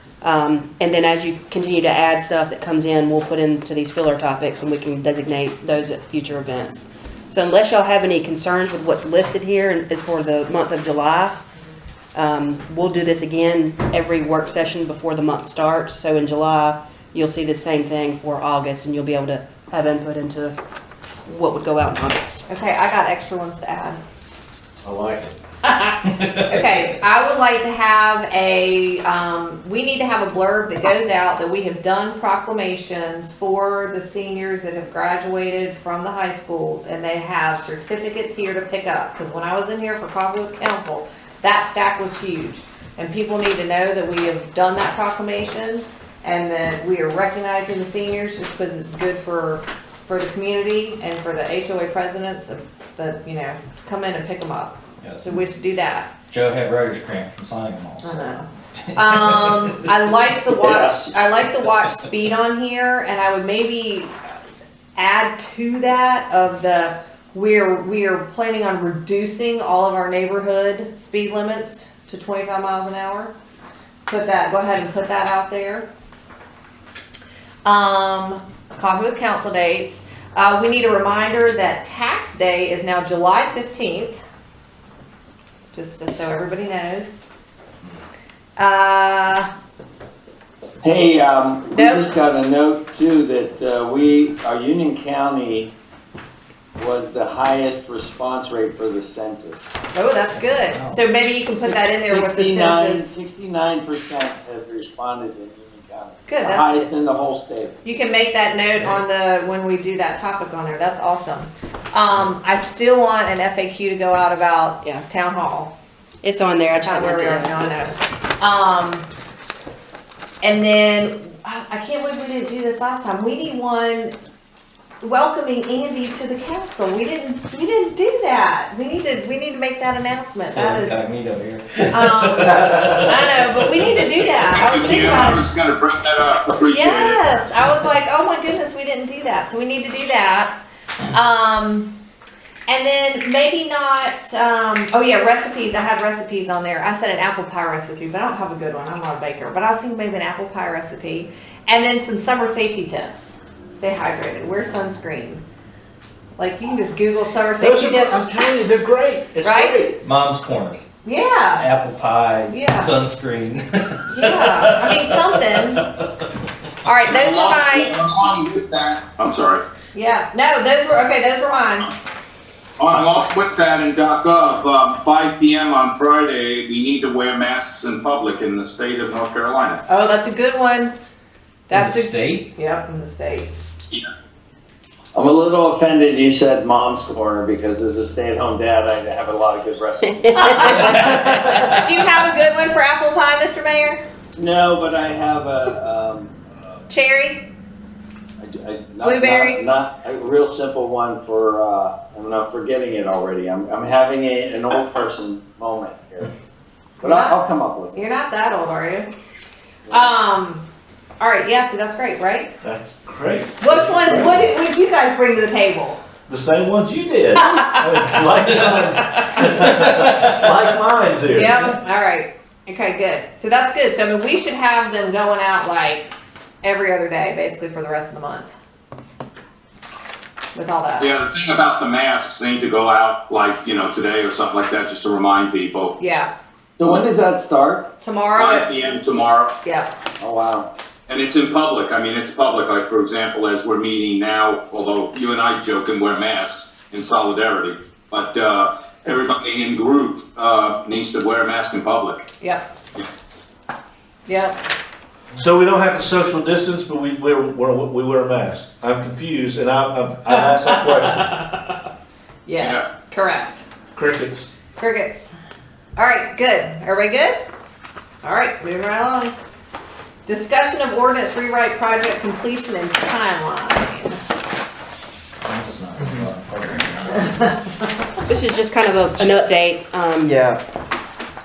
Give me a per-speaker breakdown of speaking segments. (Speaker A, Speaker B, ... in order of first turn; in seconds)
Speaker A: 0.2-11.4, 12.1-20.5, 21.2-22.4, 116.2-117.6, 190.1-191.1, 278.3-280.3
Speaker B: 22.5-24.0, 25.6-56.1, 58.0-64.1, 65.0-73.3, 74.1-75.9, 77.6-84.2, 85.7-87.2, 88.6-89.5, 91.7-92.1, 99.9-103.1, 106.2-106.9, 107.8-115.7, 116.8-119.1, 120.4-124.1, 125.0-131.0, 131.9-135.5, 136.6-140.6, 141.1-141.9, 142.7-155.4, 156.4-158.7, 159.4-159.8, 161.0-161.7, 162.4-163.0, 164.1-165.8, 166.8-167.9, 169.9-171.9, 179.9-180.9, 181.7-183.5, 191.6-194.0, 196.9-197.5, 199.0-199.6, 207.0-207.4, 207.9-209.1, 209.9-210.7, 211.2-212.6, 213.6-216.0, 217.3-218.1, 218.7-219.7, 221.3-226.1, 226.6-228.5, 230.5-231.1, 236.0-236.3, 238.0-238.7, 239.6-239.9, 252.4-252.7, 254.2-254.6, 260.3-261.7, 262.4-263.6, 264.8-265.3, 265.9-267.4, 268.2-269.3, 270.2-274.2, 277.1-277.7
Speaker C: 24.8-25.3, 157.6-160.0, 212.6-214.5, 216.3-221.6, 255.3-261.2, 263.9-264.5
Speaker D: 55.0-55.4, 56.3-59.8, 100.3-101.0, 130.4-134.1, 160.0-160.8, 161.6-166.0, 181.7-182.4, 190.7-191.8, 219.9-220.4, 275.4-277.3, 280.2-280.6
Speaker E: 60.6-61.1, 90.8-95.7, 96.8-99.7, 101.6-107.8, 185.1-190.9, 194.3-196.7, 198.4-206.3, 207.0-208.0, 209.9-210.1, 236.8-237.9, 240.2-240.7
Speaker F: 134.5-137.5, 167.0-169.6, 172.8-179.8, 231.0-235.9, 238.3-239.5, 241.1-252.2, 262.6-262.9